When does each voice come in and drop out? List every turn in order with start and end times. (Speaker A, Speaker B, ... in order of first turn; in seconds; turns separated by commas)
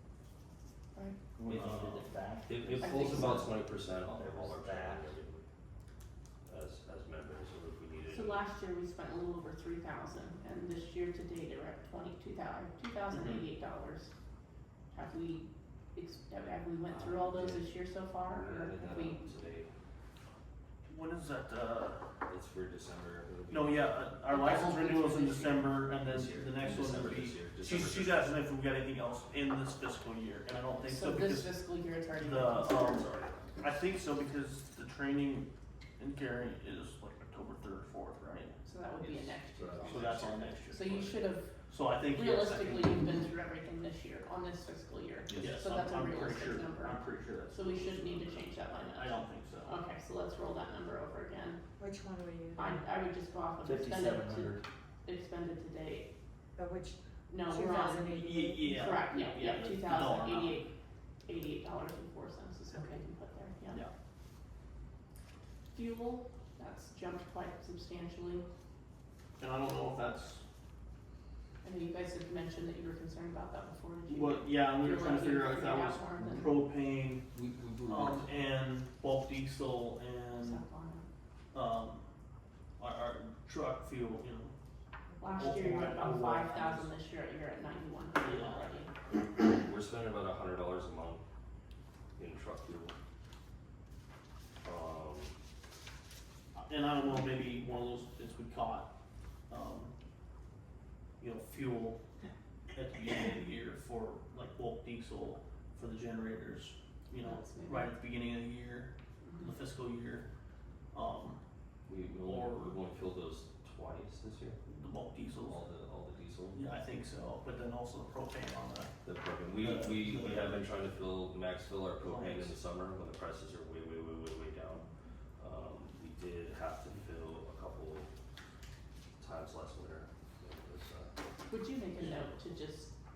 Speaker A: 1.4-3.3, Speaker B: 1.5-2.0, Speaker C: 2.4-5.5, Speaker D: 2.8-3.6, Speaker A: 4.0-5.1, Speaker C: 6.5-8.4, Speaker D: 8.1-14.1, Speaker B: 13.1-13.4, Speaker D: 14.9-19.4, Speaker C: 16.9-17.6, Speaker C: 18.1-19.7, Speaker B: 20.9-22.1, Speaker C: 22.2-24.0, Speaker B: 23.5-31.6, Speaker D: 24.3-25.9, Speaker C: 26.0-28.3, Speaker D: 30.9-33.0, Speaker B: 32.2-33.0, Speaker C: 32.2-33.7, Speaker B: 33.6-38.6, Speaker D: 38.6-41.5, Speaker C: 39.0-41.0, Speaker B: 39.9-41.2, Speaker B: 41.7-43.0, Speaker D: 42.1-47.0, Speaker C: 45.3-45.6, Speaker B: 45.3-49.8, Speaker D: 47.5-51.6, Speaker E: 51.8-52.9, Speaker D: 52.5-56.1, Speaker A: 53.6-54.6, Speaker E: 56.6-59.0, Speaker D: 57.3-58.1, Speaker B: 58.0-60.6, Speaker D: 58.7-60.7, Speaker D: 61.2-63.9, Speaker E: 62.7-63.0, Speaker D: 65.7-68.5, Speaker B: 69.4-70.4, Speaker D: 71.6-76.6, Speaker B: 74.1-77.3, Speaker C: 77.3-78.3, Speaker B: 77.8-80.6, Speaker D: 80.4-81.0, Speaker B: 81.5-82.0, Speaker B: 82.8-84.5, Speaker D: 85.2-88.9, Speaker B: 85.3-86.9, Speaker B: 88.2-88.8, Speaker C: 89.2-91.2, Speaker C: 92.2-92.9, Speaker C: 94.6-95.3, Speaker B: 96.5-98.9, Speaker B: 99.5-99.9, Speaker B: 101.2-102.0, Speaker B: 102.7-110.3, Speaker D: 107.2-107.9, Speaker D: 109.2-109.5, Speaker B: 110.9-111.4, Speaker C: 111.9-114.6, Speaker B: 112.2-112.7, Speaker B: 114.6-115.6, Speaker C: 115.4-116.7, Speaker B: 116.5-118.9, Speaker C: 119.0-128.1, Speaker B: 119.6-120.7, Speaker B: 122.0-122.5, Speaker C: 129.2-131.1, Speaker D: 131.5-132.9